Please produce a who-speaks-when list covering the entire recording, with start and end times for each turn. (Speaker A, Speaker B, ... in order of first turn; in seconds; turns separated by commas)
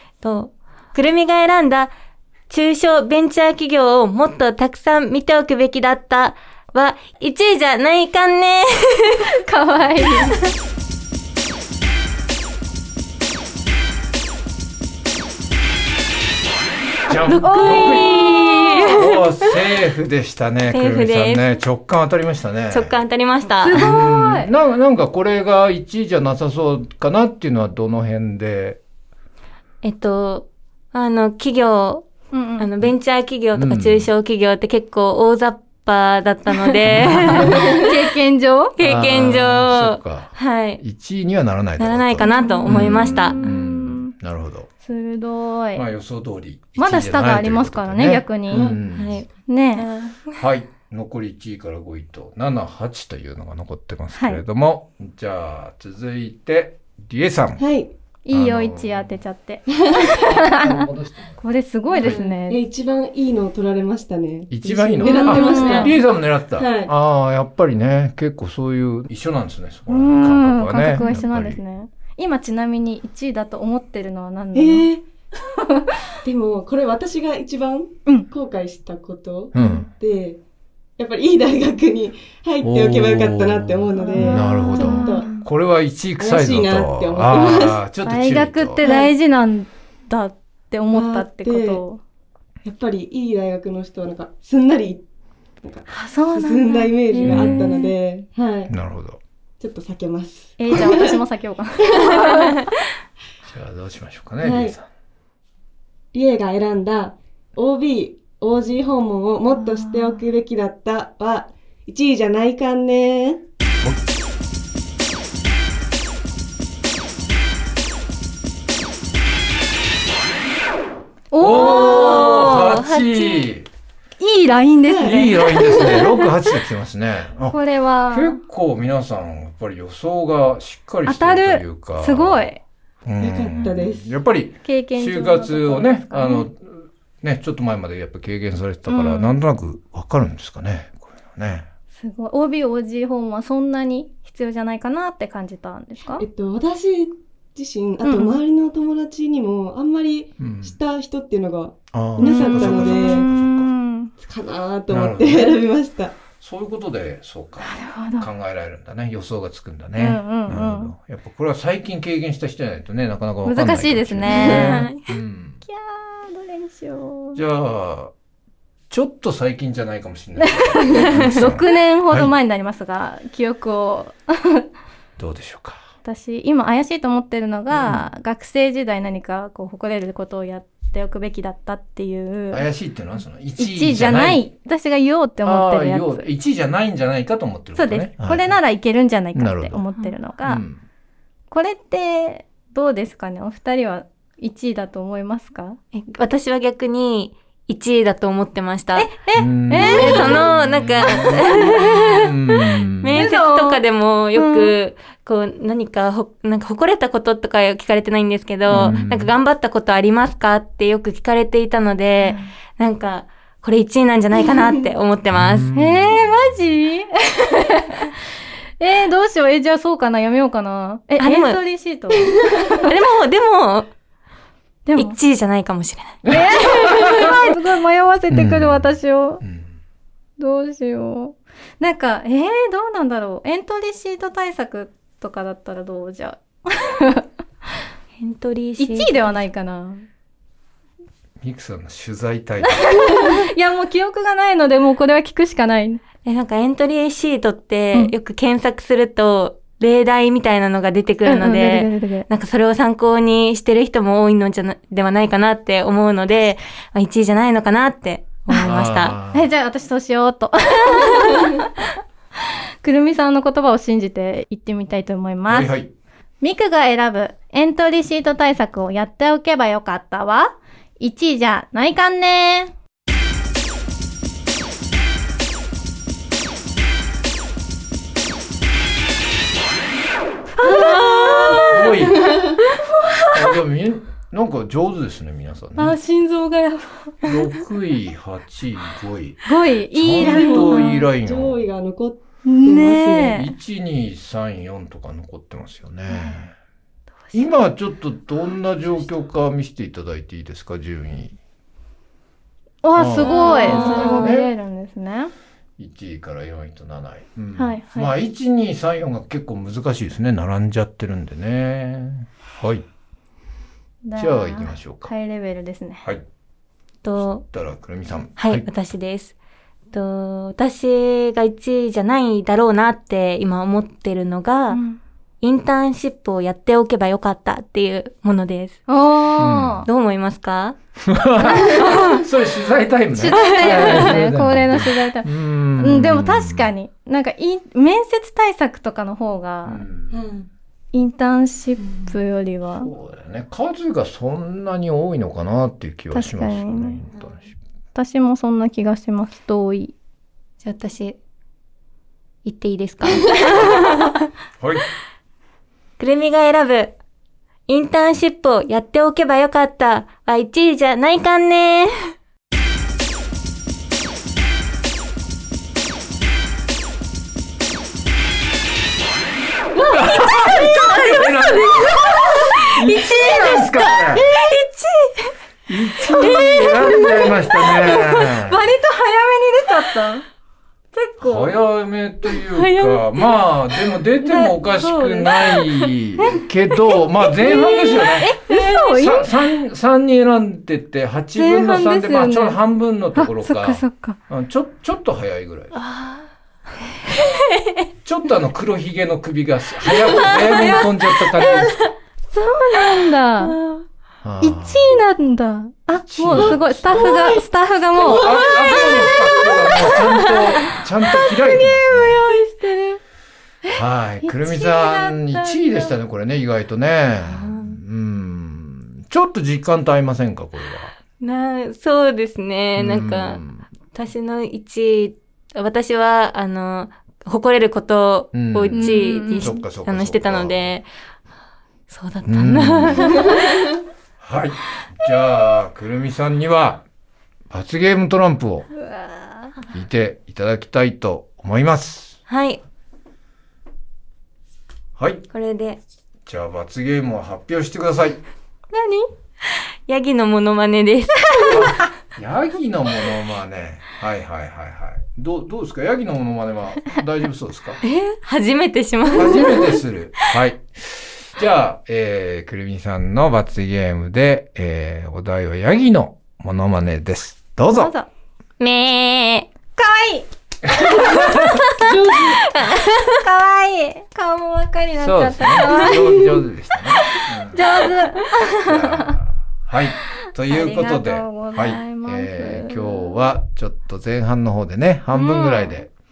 Speaker A: 0.2-1.9, Speaker A: 2.5-9.2, Speaker B: 9.3-10.4, Speaker C: 17.1-18.3, Speaker A: 17.2-19.5, Speaker B: 17.2-19.0, Speaker C: 18.9-22.9, Speaker A: 20.7-21.6, Speaker A: 22.7-23.8, Speaker B: 23.6-24.5, Speaker C: 23.7-28.8, Speaker A: 29.8-37.9, Speaker B: 32.3-32.7, Speaker C: 33.5-34.1, Speaker B: 36.6-38.7, Speaker C: 36.9-37.6, Speaker A: 38.8-40.8, Speaker C: 38.8-44.7, Speaker A: 41.8-43.4, Speaker B: 42.2-44.1, Speaker B: 44.8-45.8, Speaker C: 45.7-49.2, Speaker B: 46.8-48.7, Speaker A: 48.9-50.3, Speaker B: 49.5-49.8, Speaker C: 50.3-57.6, Speaker B: 54.1-54.4, Speaker D: 57.6-57.9, Speaker B: 58.2-60.9, Speaker C: 58.3-59.2, Speaker C: 60.1-61.4, Speaker B: 61.4-62.6, Speaker A: 61.9-62.3, Speaker C: 62.0-62.2, Speaker D: 62.0-66.0, Speaker C: 64.5-71.6, Speaker B: 65.0-66.0, Speaker D: 66.5-66.9, Speaker B: 69.9-74.9, Speaker D: 74.5-75.0, Speaker B: 75.6-75.9, Speaker D: 76.2-80.4, Speaker C: 79.5-79.9, Speaker B: 79.6-79.9, Speaker D: 81.0-85.3, Speaker C: 82.6-88.8, Speaker B: 84.0-85.5, Speaker D: 86.2-87.8, Speaker B: 88.0-92.0, Speaker D: 88.8-89.1, Speaker D: 90.9-91.8, Speaker D: 92.6-95.0, Speaker D: 95.6-98.7, Speaker B: 95.9-97.9, Speaker A: 97.2-97.7, Speaker C: 97.2-97.7, Speaker C: 98.7-99.2, Speaker D: 99.6-101.2, Speaker B: 100.6-102.7, Speaker D: 101.8-102.4, Speaker C: 103.4-104.9, Speaker D: 104.4-104.8, Speaker D: 106.1-113.4, Speaker B: 109.5-110.2, Speaker B: 121.3-122.5, Speaker C: 121.4-123.7, Speaker A: 121.5-123.5, Speaker B: 124.2-125.7, Speaker D: 124.9-126.2, Speaker C: 125.0-132.5, Speaker B: 127.5-128.4, Speaker B: 131.0-132.6, Speaker C: 133.0-141.7, Speaker D: 133.2-134.1, Speaker B: 134.6-136.5, Speaker B: 138.9-139.4, Speaker B: 141.9-146.2, Speaker D: 146.2-153.2, Speaker B: 148.0-148.3, Speaker C: 150.4-150.8, Speaker C: 151.9-153.7, Speaker B: 152.2-154.1, Speaker D: 154.2-156.2, Speaker C: 154.9-155.6, Speaker C: 156.4-165.6, Speaker B: 157.6-158.3, Speaker B: 160.0-160.9, Speaker B: 163.4-164.9, Speaker A: 164.3-165.1, Speaker B: 165.7-167.4, Speaker C: 167.3-168.1, Speaker C: 168.9-172.3, Speaker B: 170.4-174.7, Speaker C: 175.2-175.8, Speaker B: 176.0-182.7, Speaker C: 177.7-178.1, Speaker C: 182.5-184.4, Speaker B: 183.6-186.3, Speaker C: 185.4-188.6, Speaker B: 187.7-190.6, Speaker C: 189.3-189.8, Speaker C: 190.4-190.8, Speaker B: 191.5-195.8, Speaker A: 195.9-199.2, Speaker B: 198.9-200.5, Speaker C: 199.3-203.2, Speaker A: 199.8-202.3, Speaker B: 201.0-201.8, Speaker A: 203.0-215.7, Speaker B: 203.1-203.8, Speaker B: 204.3-204.8, Speaker C: 208.7-209.3, Speaker B: 212.2-212.5, Speaker C: 215.3-216.7, Speaker B: 215.7-218.1, Speaker B: 218.8-222.9, Speaker A: 221.2-221.6, Speaker A: 222.8-223.9, Speaker B: 224.8-225.2, Speaker A: 224.9-226.2, Speaker C: 226.2-227.3, Speaker B: 226.2-229.4, Speaker C: 228.3-229.7, Speaker B: 230.4-237.3, Speaker A: 238.2-239.2, Speaker B: 238.8-240.1, Speaker C: 241.4-243.4, Speaker B: 242.6-246.0, Speaker A: 246.2-259.1, Speaker B: 251.2-252.3, Speaker C: 258.5-259.5, Speaker B: 259.3-261.9, Speaker B: 262.8-265.7, Speaker C: 265.5-265.9, Speaker B: 266.4-272.7, Speaker B: 280.5-281.7, Speaker A: 280.6-282.1, Speaker C: 281.6-282.3, Speaker D: 282.1-282.6, Speaker C: 283.3-286.0, Speaker B: 285.8-287.3, Speaker C: 287.2-291.6, Speaker B: 289.4-291.0, Speaker D: 290.1-293.3, Speaker B: 292.4-293.5, Speaker C: 293.1-296.5, Speaker C: 297.3-301.4, Speaker B: 302.8-305.3, Speaker C: 302.9-304.5, Speaker A: 303.2-304.2, Speaker C: 305.8-312.8, Speaker B: 307.5-308.1, Speaker B: 314.0-316.0, Speaker C: 314.1-315.1, Speaker A: 317.0-317.4, Speaker C: 317.4-318.7, Speaker A: 318.4-319.3, Speaker A: 319.9-324.8, Speaker B: 324.7-325.0, Speaker A: 325.4-328.8, Speaker B: 328.9-329.9, Speaker C: 329.4-329.9, Speaker A: 329.8-330.8, Speaker C: 331.0-336.7, Speaker A: 331.6-332.2, Speaker B: 333.1-339.8, Speaker A: 333.3-334.1, Speaker C: 339.6-340.1, Speaker D: 340.1-340.5, Speaker B: 340.9-342.9, Speaker C: 342.7-347.5, Speaker B: 346.1-347.0, Speaker B: 347.9-349.9, Speaker A: 350.6-351.2, Speaker A: 352.4-354.2, Speaker C: 354.6-354.9, Speaker A: 356.0-356.9, Speaker A: 357.7-362.1, Speaker C: 369.8-374.3, Speaker A: 369.9-375.3, Speaker B: 370.5-372.1, Speaker B: 372.9-373.7, Speaker C: 375.7-378.6, Speaker B: 376.2-380.2, Speaker A: 376.2-378.4, Speaker B: 380.9-381.5, Speaker C: 381.2-395.7, Speaker A: 382.4-383.4, Speaker A: 384.2-385.9, Speaker A: 387.3-388.7, Speaker B: 388.2-389.3, Speaker B: 391.4-392.6, Speaker B: 393.1-394.2, Speaker A: 395.7-396.2, Speaker A: 397.1-397.7, Speaker C: 398.0-401.8, Speaker A: 399.8-401.9, Speaker B: 402.3-403.6, Speaker A: 402.8-403.8, Speaker C: 404.2-405.0, Speaker B: 404.4-410.8, Speaker C: 405.9-407.4, Speaker A: 406.3-407.3, Speaker C: 407.9-412.2, Speaker A: 407.9-410.8, Speaker B: 411.6-413.0, Speaker B: 413.6-415.9, Speaker C: 413.7-420.9, Speaker A: 417.2-417.8, Speaker A: 421.2-430.9, Speaker C: 422.8-423.7, Speaker C: 428.3-430.8, Speaker B: 428.7-429.6, Speaker A: 431.9-433.7, Speaker C: 432.2-433.3, Speaker C: 434.2-436.8, Speaker C: 437.5-438.7, Speaker B: 438.8-439.5, Speaker C: 439.7-442.2, Speaker A: 442.3-442.6, Speaker C: 445.0-445.3, Speaker A: 445.3-445.8, Speaker C: 446.2-448.2, Speaker B: 448.7-449.1, Speaker A: 449.9-451.6, Speaker C: 451.5-457.8, Speaker A: 457.8-459.8, Speaker C: 459.1-467.9, Speaker B: 467.6-468.1, Speaker A: 468.6-469.5, Speaker B: 469.8-470.3, Speaker D: 471.0-472.4, Speaker A: 471.3-473.2, Speaker B: 473.1-476.4, Speaker C: 474.9-477.7, Speaker D: 475.6-476.0, Speaker B: 477.1-479.2, Speaker C: 478.6-485.9, Speaker B: 480.4-483.3, Speaker B: 485.1-485.8